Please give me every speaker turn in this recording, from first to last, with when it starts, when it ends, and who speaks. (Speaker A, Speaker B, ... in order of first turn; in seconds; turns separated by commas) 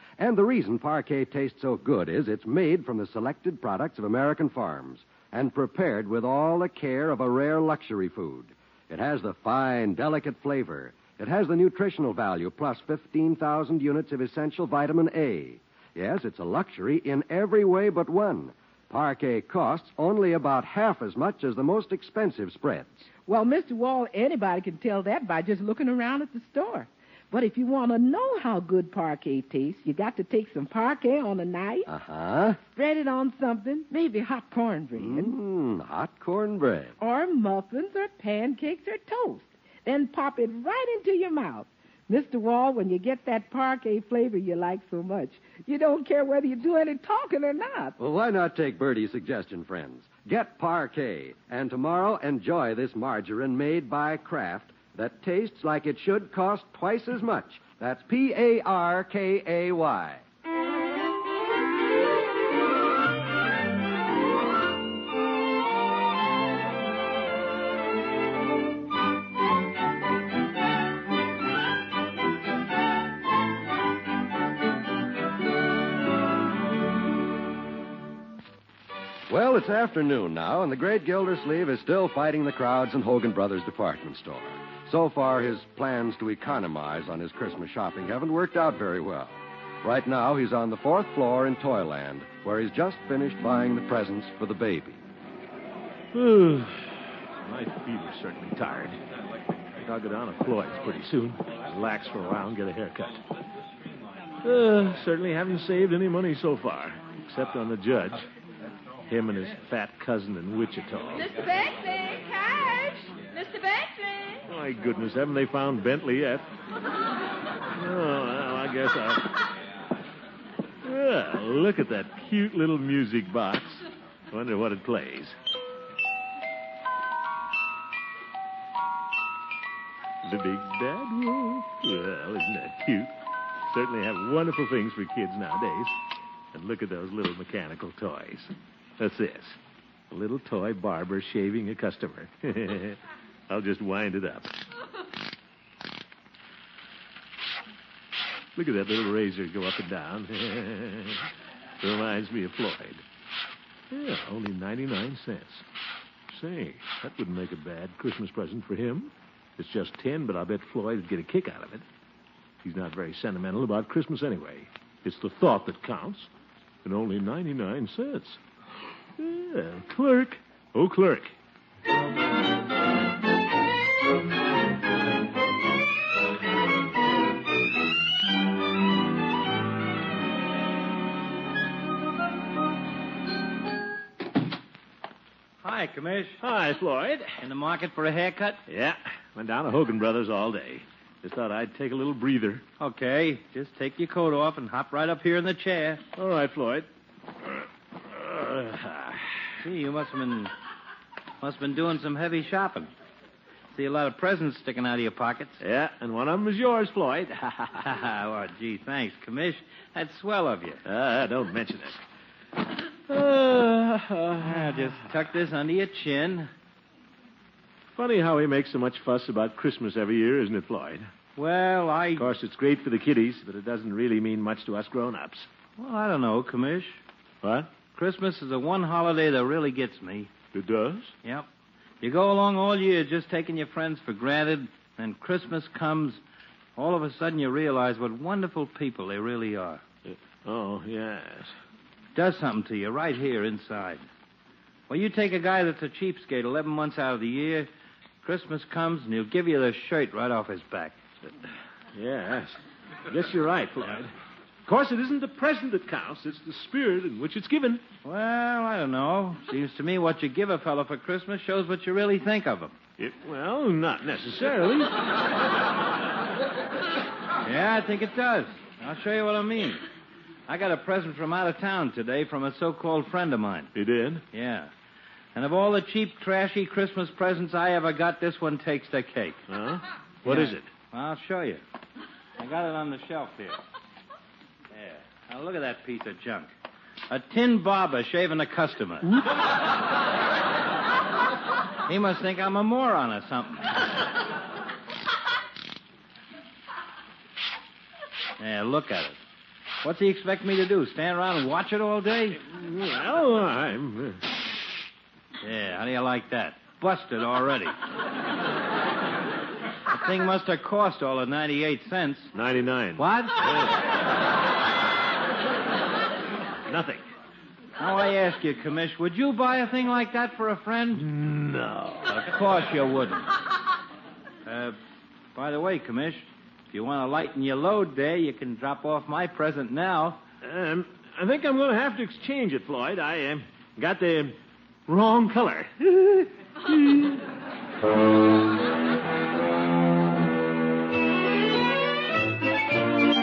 Speaker A: 0.2-23.1, Speaker B: 23.3-31.9, Speaker A: 31.9-32.6, Speaker B: 32.7-35.3, Speaker A: 35.0-36.9, Speaker B: 37.0-48.0, Speaker A: 48.0-60.2, Speaker A: 79.3-95.0, Speaker C: 96.1-99.0, Speaker C: 99.8-103.2, Speaker C: 104.4-108.2, Speaker C: 109.1-111.3, Speaker D: 111.1-114.4, Speaker C: 114.5-116.5, Speaker C: 117.8-119.3, Speaker C: 120.8-125.3, Speaker C: 130.2-133.1, Speaker C: 133.7-136.0, Speaker C: 136.5-139.6, Speaker C: 140.1-144.5, Speaker C: 148.6-151.2, Speaker C: 151.8-153.0, Speaker C: 153.9-155.6, Speaker C: 156.3-161.8, Speaker C: 162.6-166.3, Speaker C: 166.8-168.4, Speaker C: 169.2-171.3, Speaker E: 185.6-186.4, Speaker C: 186.4-187.4, Speaker E: 187.4-188.6, Speaker C: 188.7-192.6, Speaker E: 192.8-196.0, Speaker C: 196.1-196.9, Speaker C: 198.0-199.3, Speaker E: 199.6-200.5, Speaker E: 201.4-202.9, Speaker E: 203.7-205.6, Speaker C: 205.6-207.8, Speaker E: 207.8-210.8, Speaker C: 210.8-212.0, Speaker C: 213.1-215.0, Speaker E: 214.4-216.5, Speaker C: 217.9-221.1, Speaker E: 221.3-222.3, Speaker C: 222.2-225.5, Speaker E: 225.8-227.0, Speaker C: 227.4-227.7, Speaker E: 227.9-230.3, Speaker C: 230.5-231.1, Speaker E: 232.0-236.2, Speaker E: 236.8-239.8, Speaker C: 240.1-241.5, Speaker E: 242.1-244.1, Speaker E: 244.9-247.7, Speaker E: 248.2-251.0, Speaker C: 251.9-254.1, Speaker C: 254.7-257.8, Speaker E: 258.0-262.8, Speaker C: 263.0-264.9, Speaker E: 267.4-269.8, Speaker E: 270.5-273.7, Speaker C: 273.7-274.2, Speaker E: 274.3-274.7, Speaker E: 275.3-279.4, Speaker C: 279.5-280.7, Speaker E: 280.2-281.6, Speaker E: 282.4-283.6, Speaker E: 284.7-286.5, Speaker E: 287.1-289.2, Speaker E: 291.9-293.7, Speaker E: 298.4-299.2, Speaker E: 299.8-302.4, Speaker C: 302.5-304.3, Speaker E: 305.4-307.7, Speaker E: 309.9-312.3, Speaker C: 312.3-313.7, Speaker E: 313.0-313.4, Speaker C: 316.7-317.0, Speaker E: 317.8-321.1, Speaker C: 320.9-322.2, Speaker E: 322.1-323.3, Speaker E: 324.4-324.8, Speaker E: 325.3-330.2, Speaker C: 330.4-337.1